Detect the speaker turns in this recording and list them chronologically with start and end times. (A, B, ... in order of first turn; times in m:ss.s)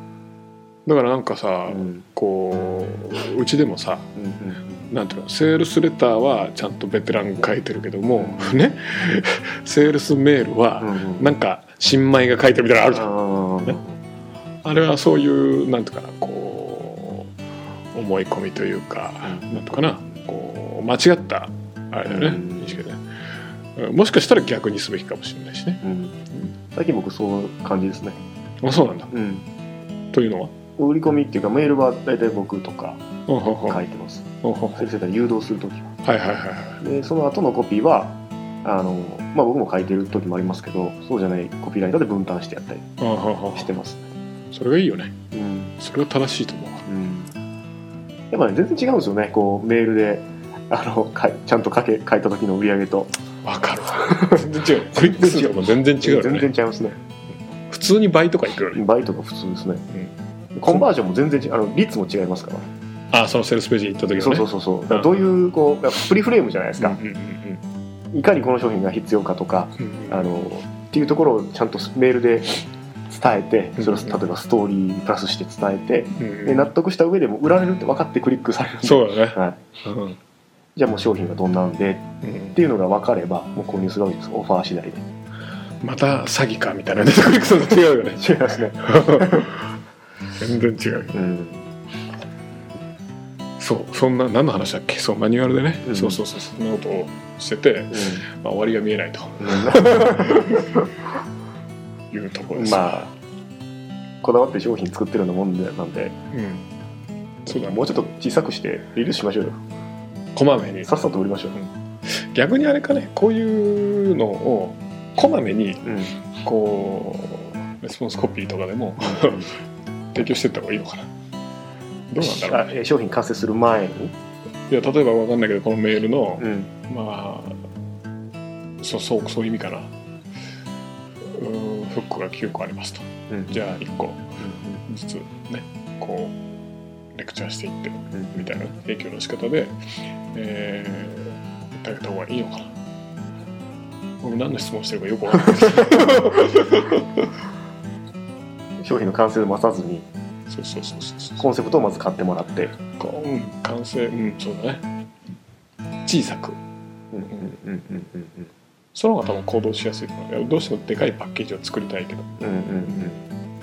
0:00.9-0:04.1 A
0:01.7-0:02.0 B
0:04.2-0:04.8 B
0:04.9-0:13.1 A
0:08.2-0:08.6 B
0:10.8-0:11.4 B
0:12.9-0:14.0 B
0:14.6-0:17.3 A
0:17.9-0:23.0 A
0:19.2-0:19.7 B
0:22.1-0:22.8 B
0:23.8-0:25.8 A
0:25.8-0:26.2 B
0:26.7-0:28.2 B
0:28.6-0:29.1 A
0:29.1-0:29.5 B
0:30.1-0:30.6 A
0:30.8-0:33.0 B
0:33.3-0:33.8 A
0:33.7-0:34.3 B
0:34.4-0:34.9 A
0:34.8-0:35.9 B
0:36.0-0:36.8 A
0:36.8-0:42.9 B
0:43.0-0:43.7 A
0:43.6-0:44.1 B
0:44.5-0:45.2 A
0:45.3-0:45.8 B
0:45.8-0:46.9 A
0:46.9-0:47.3 B
0:48.3-0:53.1 B
0:53.4-0:56.5 A
0:53.9-0:57.0 B
0:57.7-0:58.8 A
0:58.7-0:59.8 B
0:59.9-1:00.8 A
1:00.6-1:02.7 B
1:03.1-1:05.1 A
1:04.1-1:07.0 B
1:06.8-1:07.6 A
1:08.1-1:19.6 B
1:09.8-1:10.3 A
1:13.8-1:14.2 A
1:16.2-1:16.7 A
1:18.8-1:20.2 A
1:20.8-1:25.0 B
1:22.2-1:22.6 A
1:25.8-1:28.2 A
1:28.0-1:29.5 B
1:28.8-1:29.7 A
1:30.4-1:31.2 A
1:31.1-1:31.7 B
1:33.6-1:40.9 A
1:35.8-1:36.2 B
1:37.9-1:38.2 B
1:39.4-1:40.9 B
1:42.1-1:43.0 A
1:42.6-1:43.1 B
1:44.2-1:46.2 B
1:46.3-1:46.7 A
1:47.5-1:47.9 A
1:47.5-1:49.6 B
1:50.4-1:50.9 A
1:50.8-1:51.6 B
1:51.5-1:59.5 A
1:55.8-1:56.2 B
1:59.0-1:59.5 B
2:00.1-2:01.1 A
2:02.1-2:02.7 A
2:02.2-2:04.1 B
2:04.7-2:07.6 A
2:06.4-2:06.7 B
2:08.8-2:09.9 A
2:11.3-2:16.4 A
2:13.3-2:13.8 B
2:14.4-2:14.8 B
2:17.2-2:19.8 A
2:18.1-2:18.4 B
2:20.3-2:22.7 A
2:24.2-2:27.3 A
2:28.8-2:30.1 B
2:30.5-2:31.4 A
2:31.4-2:32.7 B
2:32.8-2:34.8 A
2:36.0-2:36.6 A
2:37.1-2:38.5 B
2:38.9-2:42.4 A
2:42.4-2:43.2 B